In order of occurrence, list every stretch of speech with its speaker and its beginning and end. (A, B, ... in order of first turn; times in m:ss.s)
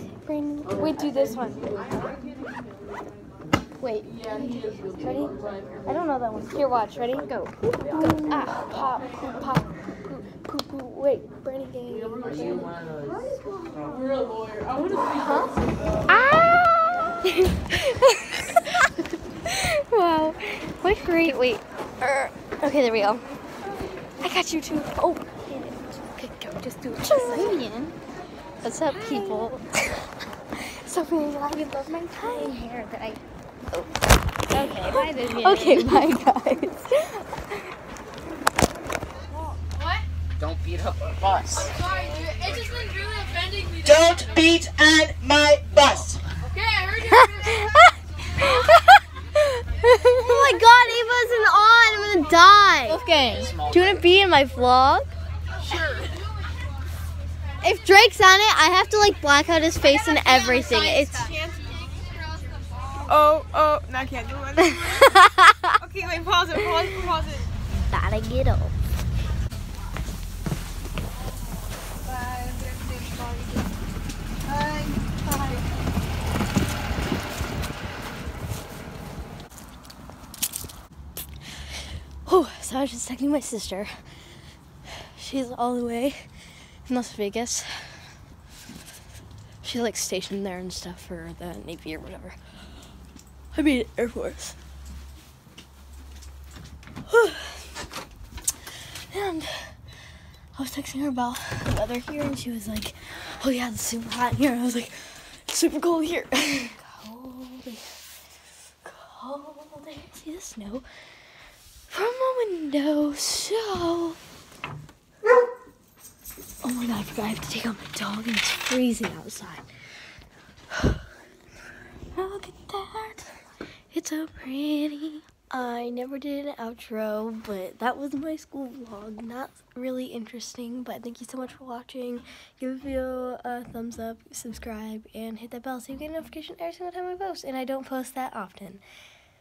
0:00.2-0:01.6 A
0:00.8-0:01.5 B
0:03.8-0:05.3 A
0:05.9-0:12.7 A
0:06.5-0:07.5 B
0:08.3-0:08.6 B
0:15.0-0:15.5 A
0:16.1-0:23.3 A
0:24.2-0:27.6 A
0:27.1-0:28.0 B
0:28.6-0:32.6 A
0:29.0-0:29.5 B
0:31.8-0:33.2 B
0:34.5-0:36.1 B
0:34.5-0:37.2 A
0:41.1-0:41.7 C
0:42.2-0:43.3 D
0:43.7-0:46.2 C
0:46.6-0:47.0 D
0:47.0-0:47.7 A
0:49.9-0:50.6 A
0:50.2-0:54.1 B
0:53.6-0:55.1 A
0:55.7-0:56.1 D
0:57.6-1:01.3 B
1:00.6-1:01.5 D
1:03.1-1:05.1 D
1:04.8-1:05.3 B
1:05.8-1:07.5 D
1:07.8-1:08.7 B
1:12.0-1:13.6 D
1:14.5-1:15.7 D
1:22.2-1:23.9 A
1:25.0-1:26.3 A
1:26.9-1:28.1 A
1:29.6-1:32.4 A
1:33.5-1:34.6 A
1:37.1-1:37.7 A
1:39.1-1:39.8 A
1:40.6-1:47.9 A
1:48.8-1:50.8 A
1:51.9-1:54.2 A
1:56.6-1:59.7 A
2:02.1-2:03.4 A
2:03.9-2:18.8 A